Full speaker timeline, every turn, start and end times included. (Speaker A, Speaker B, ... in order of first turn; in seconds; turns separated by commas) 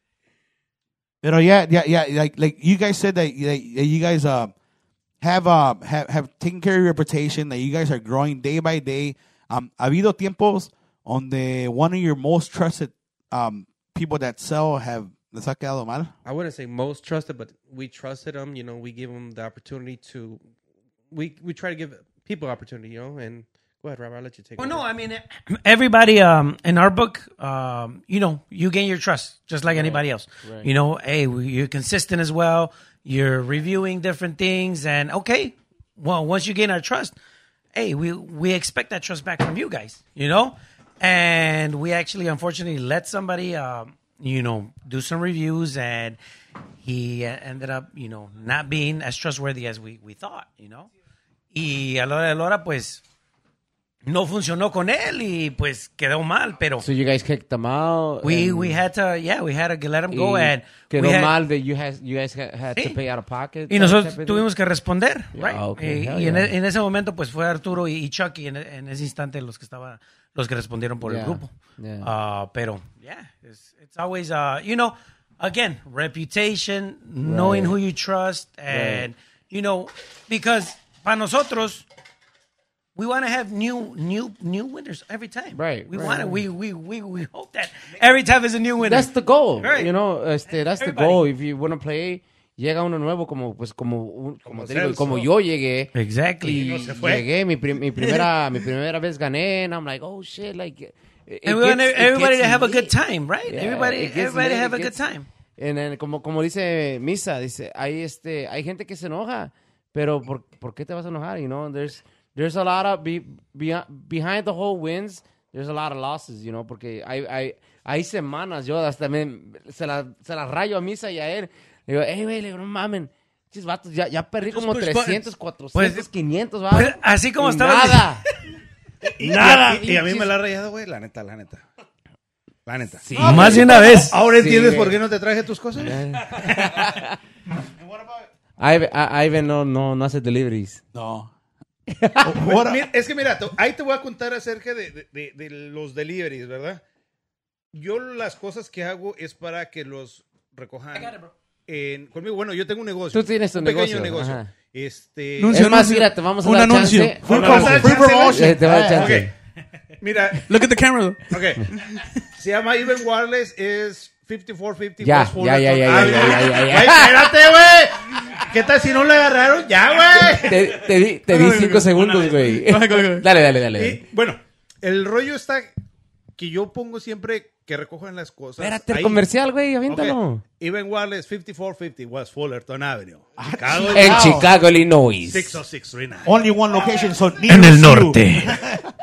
Speaker A: 1.2-4.5, Speaker A: 5.2-16.1, Speaker B: 16.2-20.4, Speaker B: 21.1-24.9, Speaker C: 24.6-37.1, Speaker D: 29.7-30.7, Speaker C: 37.7-46.2, Speaker C: 46.8-50.9, Speaker C: 51.5-53.0, Speaker C: 54.0-56.8, Speaker D: 56.8-58.8, Speaker C: 58.2-61.3, Speaker D: 60.1-64.5, Speaker C: 63.7-81.8, Speaker D: 65.3-66.5, Speaker D: 71.0-72.1, Speaker D: 77.2-77.8, Speaker D: 78.7-79.1, Speaker C: 82.9-89.9, Speaker D: 85.5-86.4, Speaker D: 88.8-105.0, Speaker C: 90.7-91.2, Speaker E: 94.5-95.3, Speaker C: 95.9-96.7, Speaker E: 96.5-97.3, Speaker C: 101.5-105.3, Speaker D: 105.6-128.2, Speaker F: 124.5-125.2, Speaker C: 124.7-125.0, Speaker C: 125.7-126.1, Speaker C: 126.7-128.1, Speaker E: 129.2-131.6, Speaker D: 129.2-130.3, Speaker E: 132.7-136.4, Speaker D: 133.0-135.0, Speaker C: 133.2-134.2, Speaker D: 135.8-137.1, Speaker D: 138.6-140.8, Speaker A: 140.9-141.3, Speaker D: 141.9-142.3, Speaker A: 142.2-142.9, Speaker E: 142.4-146.8, Speaker E: 147.7-155.6, Speaker D: 153.1-154.5, Speaker F: 155.4-157.3, Speaker D: 155.5-159.3, Speaker A: 157.2-159.2, Speaker E: 157.2-159.3, Speaker E: 160.0-160.6, Speaker F: 160.5-162.0, Speaker E: 161.3-161.8, Speaker E: 162.3-170.7, Speaker D: 165.0-167.5, Speaker D: 170.1-174.0, Speaker F: 171.2-173.3, Speaker E: 173.7-175.7, Speaker E: 176.4-179.2, Speaker D: 178.6-180.4, Speaker E: 179.8-184.5, Speaker A: 183.4-184.5, Speaker D: 183.9-185.6, Speaker E: 185.3-186.4, Speaker A: 186.2-188.9, Speaker C: 187.5-188.6